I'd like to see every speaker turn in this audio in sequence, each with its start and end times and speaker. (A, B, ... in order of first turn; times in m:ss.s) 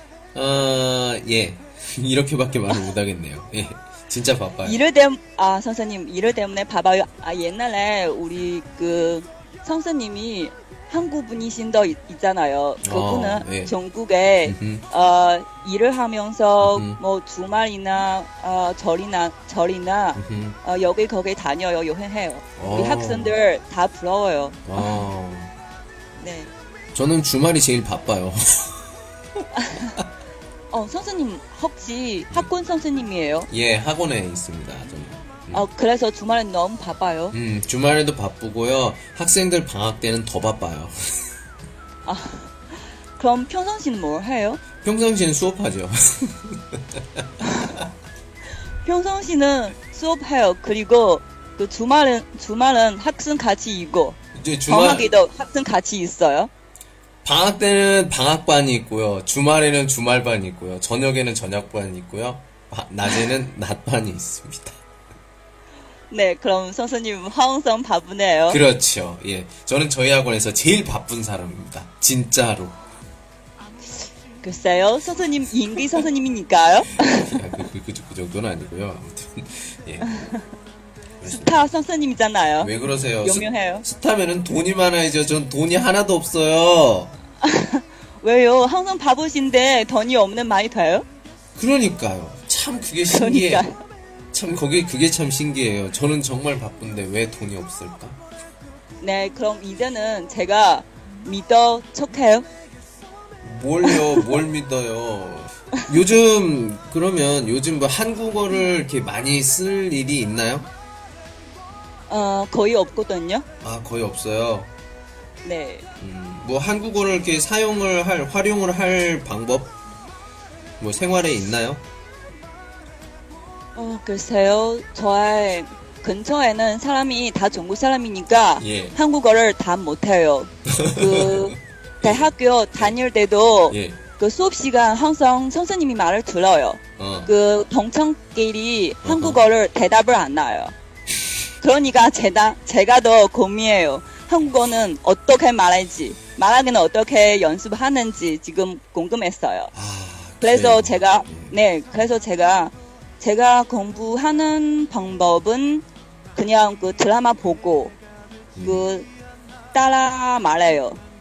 0:00.3-0:04.8 A
0:04.6-0:24.9 B
0:12.8-0:13.7 A
0:14.4-0:14.8 A
0:16.6-0:17.0 A
0:20.2-0:20.6 A
0:22.6-0:23.3 A
0:24.7-0:25.5 A
0:26.2-0:26.5 B
0:26.9-0:29.4 A
0:29.6-0:30.0 B
0:30.7-0:33.5 B
0:33.5-0:35.7 A
0:35.5-0:37.4 B
0:37.3-0:41.2 A
0:42.0-0:44.6 B
0:44.8-0:47.9 A
0:48.8-0:56.5 B
0:54.4-0:55.1 A
0:57.2-1:04.8 A
1:06.1-1:08.6 B
1:08.5-1:12.8 A
1:14.4-1:17.4 B
1:17.0-1:20.1 A
1:20.1-1:20.4 B
1:21.2-1:21.7 A
1:21.2-1:22.7 B
1:22.6-1:27.2 A
1:23.2-1:23.9 B
1:27.4-1:31.1 B
1:31.6-1:33.7 A
1:33.1-1:33.8 B
1:34.3-1:38.2 A
1:39.0-1:42.5 B
1:43.4-1:50.7 A
1:43.9-1:44.2 B
1:52.1-1:53.5 B
1:53.6-1:54.7 A
1:55.4-1:55.9 B
1:56.0-1:59.8 A
2:00.8-2:01.8 A
2:03.8-2:20.7 B
2:08.6-2:09.0 A
2:10.7-2:12.2 A
2:13.7-2:14.0 A
2:17.0-2:17.3 A
2:19.0-2:19.4 A
2:21.6-2:29.7 B
2:29.7-2:31.6 A
2:30.4-2:38.0 B
2:38.6-2:38.9 A
2:38.6-2:39.1 B
2:39.7-2:41.0 B